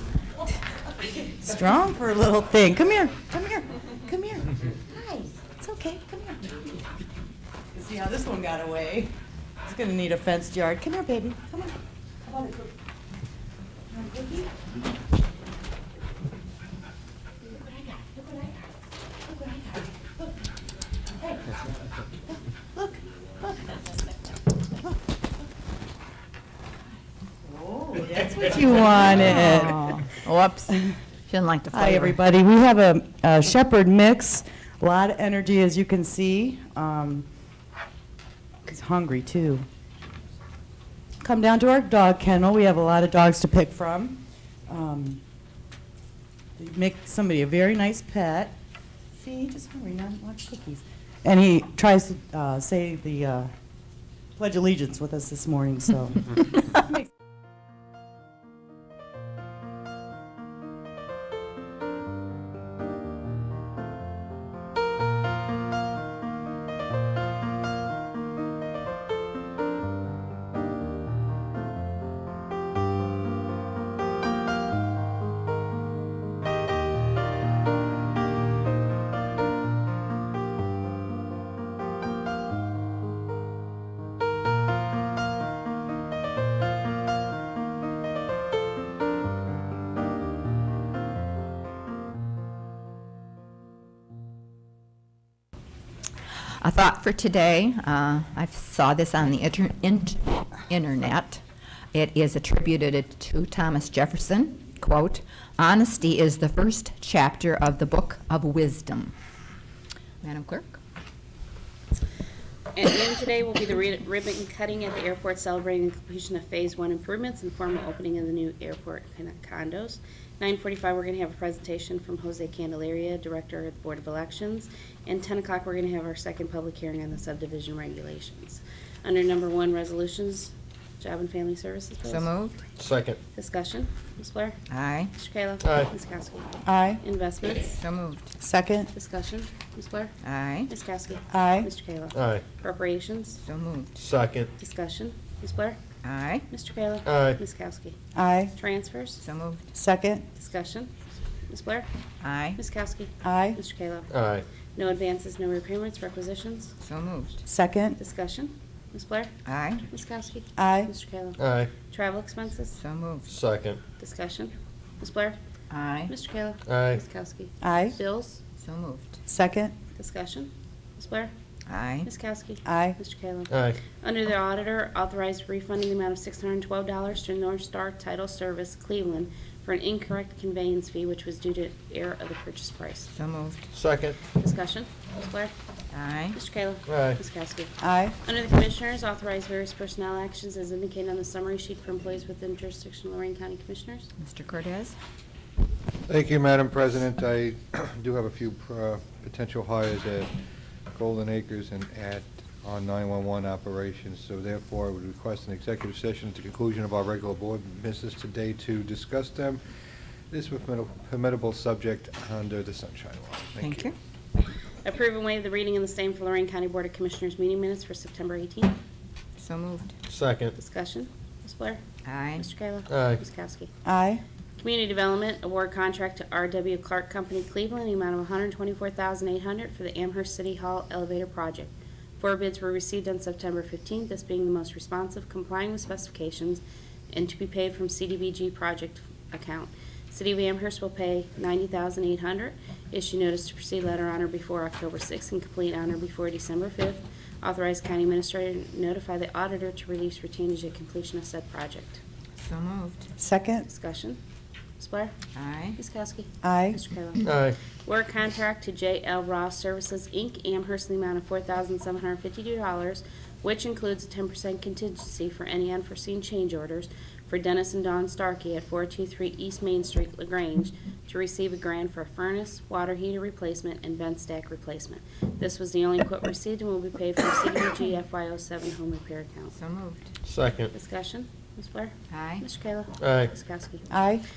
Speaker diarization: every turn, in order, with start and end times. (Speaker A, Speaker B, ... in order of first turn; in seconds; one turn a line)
Speaker A: 1.0-6.8
Speaker A: 7.7-9.1
Speaker A: 9.7-12.7
Speaker A: 13.9-14.5
Speaker A: 17.9-18.2
Speaker A: 19.3-19.8
Speaker A: 21.2-21.6
Speaker A: 27.4-30.1
Speaker B: 29.1-32.2
Speaker A: 31.7-37.3
Speaker A: 38.6-39.7
Speaker A: 41.2-45.2
Speaker A: 46.6-48.6
Speaker A: 49.1-53.5
Speaker A: 54.4-57.0
Speaker B: 96.6-101.4
Speaker B: 101.9-109.1
Speaker B: 110.2-110.8
Speaker C: 112.7-132.3
Speaker B: 132.1-132.6
Speaker D: 132.8-133.2
Speaker C: 133.3-134.6
Speaker B: 134.7-135.1
Speaker C: 135.1-137.8
Speaker D: 135.6-135.9
Speaker A: 136.7-137.0
Speaker B: 137.8-138.3
Speaker A: 138.4-138.9
Speaker C: 138.9-140.1
Speaker B: 140.2-140.7
Speaker C: 140.7-143.4
Speaker A: 141.3-141.7
Speaker D: 142.1-142.5
Speaker B: 143.4-143.9
Speaker D: 144.0-144.5
Speaker C: 144.6-145.8
Speaker B: 146.0-146.5
Speaker C: 146.5-148.0
Speaker D: 147.1-147.4
Speaker A: 148.2-148.5
Speaker C: 148.6-149.2
Speaker B: 149.2-149.6
Speaker A: 149.7-150.2
Speaker C: 150.4-150.9
Speaker C: 151.5-151.9
Speaker B: 152.2-152.6
Speaker C: 152.6-154.1
Speaker A: 153.2-153.6
Speaker D: 154.1-154.5
Speaker C: 154.8-156.7
Speaker B: 156.8-157.4
Speaker A: 157.5-158.0
Speaker C: 158.0-159.3
Speaker B: 159.4-159.9
Speaker C: 159.9-162.8
Speaker A: 160.6-160.9
Speaker D: 161.4-161.7
Speaker B: 162.8-163.3
Speaker D: 163.3-163.8
Speaker C: 164.0-165.4
Speaker B: 165.7-166.1
Speaker C: 166.1-168.4
Speaker D: 166.7-167.0
Speaker A: 167.6-168.0
Speaker B: 168.6-169.2
Speaker A: 169.3-169.7
Speaker C: 170.0-171.3
Speaker B: 171.7-172.1
Speaker C: 172.1-183.1
Speaker A: 172.7-173.0
Speaker D: 173.5-173.8
Speaker B: 183.1-183.7
Speaker D: 183.7-184.2
Speaker C: 184.3-185.5
Speaker B: 185.9-186.4
Speaker C: 186.3-194.1
Speaker D: 186.9-187.2
Speaker A: 187.8-188.2
Speaker B: 194.2-195.0
Speaker E: 196.1-200.3
Speaker E: 200.9-209.6
Speaker E: 210.3-213.9
Speaker B: 213.6-213.9
Speaker C: 214.8-218.8
Speaker B: 219.4-219.9
Speaker D: 220.1-220.6
Speaker C: 220.6-221.8
Speaker B: 222.1-222.5
Speaker C: 222.4-223.7
Speaker D: 222.9-223.2
Speaker A: 223.8-224.2
Speaker C: 224.6-252.0
Speaker B: 252.4-253.1
Speaker A: 253.2-253.7
Speaker C: 253.7-254.2
Speaker C: 254.8-255.2
Speaker B: 255.3-255.8
Speaker C: 255.8-279.5
Speaker A: 256.4-256.8
Speaker D: 257.2-257.6
Speaker B: 279.6-280.1
Speaker D: 280.2-280.7
Speaker C: 280.7-283.9
Speaker B: 282.1-282.5
Speaker D: 283.0-283.3
Speaker A: 283.9-284.2